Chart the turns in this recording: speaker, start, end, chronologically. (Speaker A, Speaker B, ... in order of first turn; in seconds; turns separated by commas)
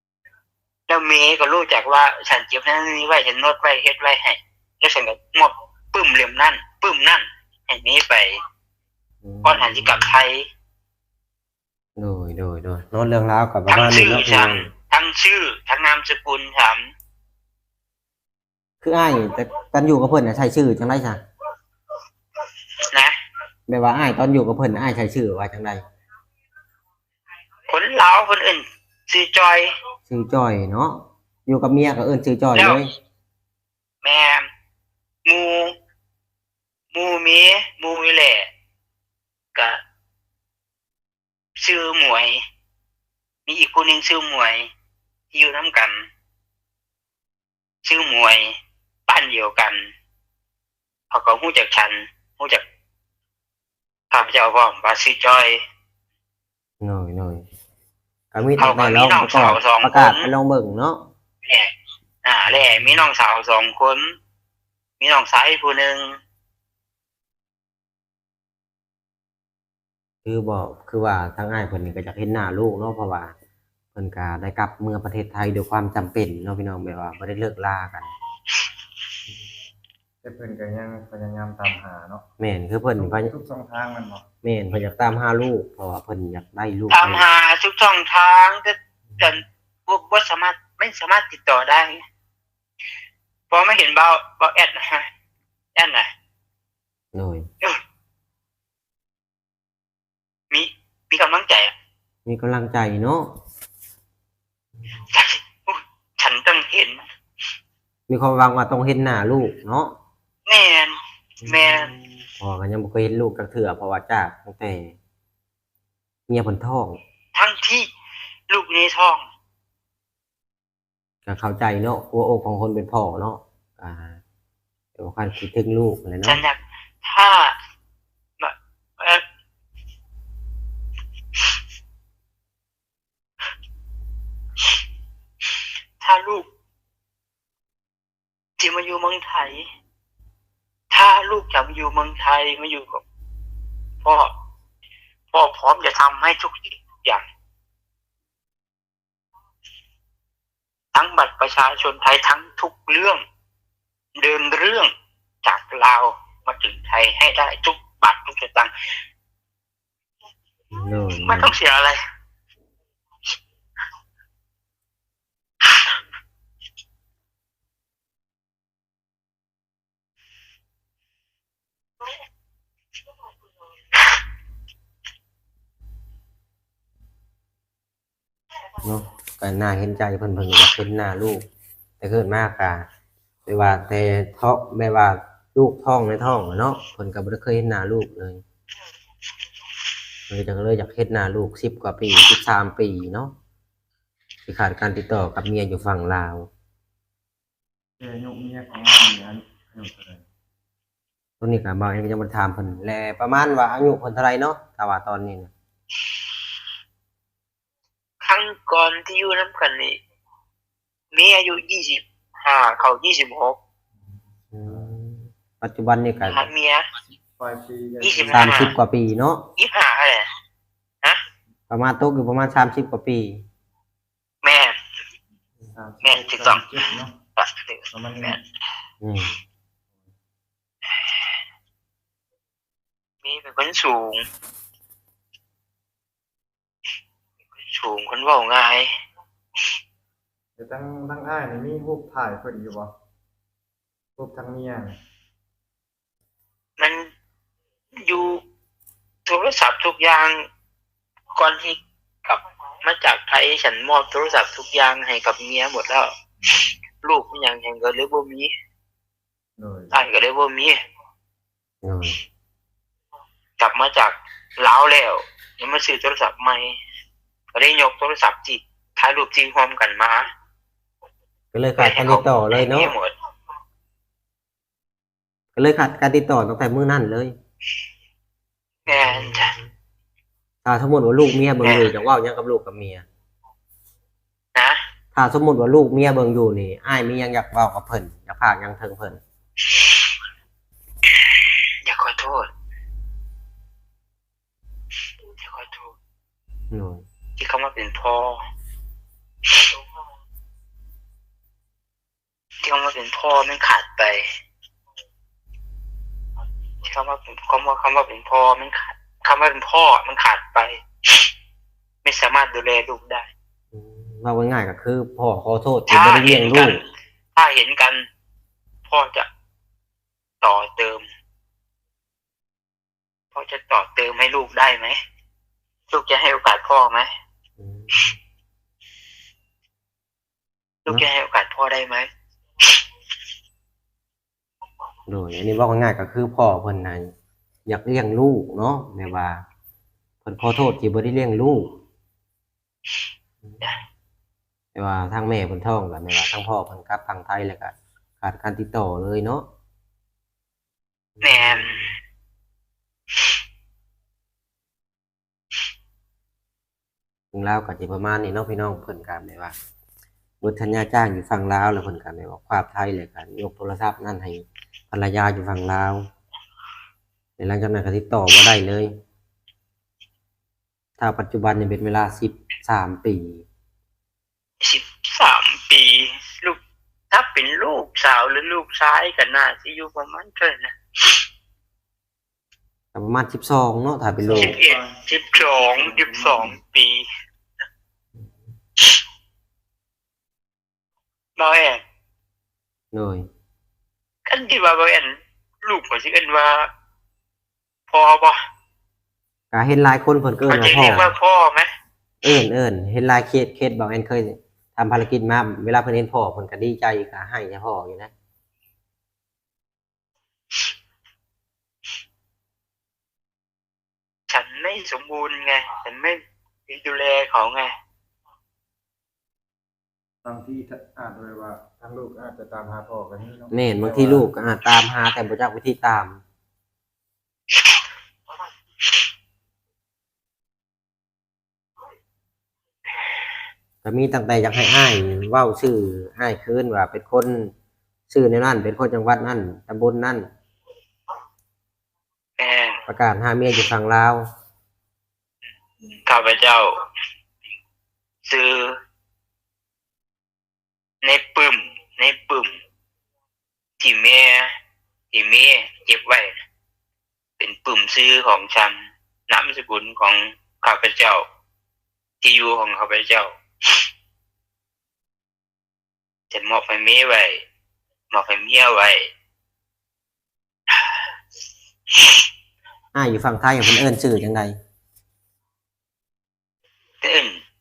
Speaker A: 0.9-8.4, Speaker B: 9.2-10.2, Speaker A: 9.4-10.5, Speaker B: 12.0-14.7, Speaker A: 13.7-16.9, Speaker B: 18.8-21.2, Speaker B: 23.7-25.8, Speaker A: 27.7-29.7, Speaker B: 30.1-32.9, Speaker A: 32.5-32.8, Speaker A: 34.0-34.5, Speaker A: 35.2-35.7, Speaker A: 36.9-38.5, Speaker A: 39.5-39.8, Speaker A: 41.6-42.4, Speaker A: 43.5-44.7, Speaker A: 45.3-46.1, Speaker A: 47.8-49.9, Speaker A: 51.1-52.6, Speaker A: 54.1-55.6, Speaker B: 56.8-57.4, Speaker B: 58.3-61.0, Speaker A: 58.6-60.3, Speaker A: 61.4-61.7, Speaker A: 62.2-64.2, Speaker A: 65.0-66.2, Speaker B: 70.2-73.3, Speaker B: 73.9-78.1, Speaker C: 80.2-82.2, Speaker B: 82.4-83.3, Speaker C: 83.0-84.2, Speaker B: 84.4-87.2, Speaker A: 86.9-92.0, Speaker A: 93.5-95.1, Speaker A: 95.7-96.1, Speaker B: 97.1-97.5, Speaker A: 100.5-101.7, Speaker B: 102.2-103.3, Speaker A: 105.1-107.0, Speaker B: 108.1-109.9, Speaker A: 110.5-111.9, Speaker B: 111.4-115.0, Speaker B: 116.3-117.0, Speaker A: 117.3-117.9, Speaker A: 118.5-119.3, Speaker B: 121.2-124.2, Speaker B: 125.0-126.4, Speaker A: 126.2-127.5, Speaker A: 128.4-129.2, Speaker A: 136.0-136.5, Speaker A: 138.6-139.7, Speaker A: 140.9-143.0, Speaker A: 144.0-144.3, Speaker A: 145.3-147.2, Speaker A: 150.9-153.2, Speaker A: 154.2-154.9, Speaker A: 155.4-158.7, Speaker B: 160.7-161.5, Speaker A: 161.2-162.0, Speaker B: 178.8-181.4, Speaker B: 182.0-182.8, Speaker B: 183.4-188.4, Speaker B: 190.3-193.3, Speaker B: 194.4-196.5, Speaker C: 198.0-200.2, Speaker B: 201.4-205.5, Speaker A: 208.2-210.0, Speaker A: 211.1-213.6, Speaker B: 214.5-216.5, Speaker A: 216.3-216.9, Speaker C: 217.4-218.7, Speaker A: 218.0-218.7, Speaker B: 218.3-219.4, Speaker A: 219.6-220.3, Speaker B: 221.7-223.4, Speaker A: 224.4-224.8, Speaker C: 225.7-227.1, Speaker A: 226.0-226.7, Speaker A: 227.4-228.4, Speaker C: 227.9-228.4, Speaker B: 229.0-229.3, Speaker A: 233.2-234.2, Speaker A: 237.7-238.9, Speaker C: 240.6-242.9, Speaker C: 244.2-244.9, Speaker A: 246.8-247.1, Speaker A: 247.9-248.4, Speaker A: 249.2-250.5, Speaker A: 251.3-256.1, Speaker C: 256.4-256.7, Speaker A: 257.0-258.5, Speaker C: 259.6-259.9, Speaker A: 259.9-260.8, Speaker B: 261.8-262.2, Speaker A: 263.6-266.8, Speaker A: 267.5-270.3, Speaker B: 271.5-272.9, Speaker A: 271.8-273.1, Speaker B: 275.6-277.3, Speaker A: 278.9-279.5, Speaker B: 278.9-279.6, Speaker B: 280.6-283.0, Speaker A: 281.6-281.9, Speaker B: 285.1-289.2, Speaker A: 291.8-292.5, Speaker A: 295.4-295.9, Speaker B: 296.7-297.0, Speaker A: 297.4-298.4, Speaker A: 302.6-304.3, Speaker A: 306.8-311.2, Speaker A: 312.0-313.3, Speaker B: 313.7-316.8, Speaker A: 315.9-318.1, Speaker A: 318.9-319.3, Speaker A: 320.4-321.0, Speaker A: 323.3-325.0, Speaker A: 325.9-327.1, Speaker B: 327.6-328.2, Speaker A: 330.9-332.1, Speaker B: 335.1-337.1, Speaker B: 337.6-339.4, Speaker B: 340.2-341.8, Speaker B: 344.7-349.4, Speaker B: 351.2-351.9, Speaker A: 351.2-351.9, Speaker B: 357.3-359.5, Speaker B: 360.4-366.1, Speaker B: 367.4-368.9, Speaker B: 371.0-373.4, Speaker A: 374.6-376.6, Speaker A: 377.1-381.2, Speaker B: 382.9-384.6, Speaker C: 384.2-386.6, Speaker A: 384.3-387.0, Speaker A: 391.4-391.8, Speaker B: 392.9-393.3, Speaker A: 394.2-396.7, Speaker A: 397.9-398.4, Speaker B: 399.5-401.1, Speaker A: 400.5-401.7, Speaker B: 402.2-408.1, Speaker A: 414.3-417.7, Speaker C: 420.2-424.3, Speaker B: 423.5-426.2, Speaker B: 433.8-437.5, Speaker B: 438.1-440.3, Speaker A: 442.4-442.8, Speaker B: 442.9-444.2, Speaker A: 445.9-446.8, Speaker A: 448.2-448.8, Speaker A: 451.0-452.5, Speaker A: 453.8-454.5, Speaker A: 455.1-456.4, Speaker A: 457.4-461.2, Speaker A: 462.2-463.4, Speaker A: 466.3-467.4, Speaker A: 468.1-469.1, Speaker B: 472.9-474.5, Speaker A: 477.0-477.4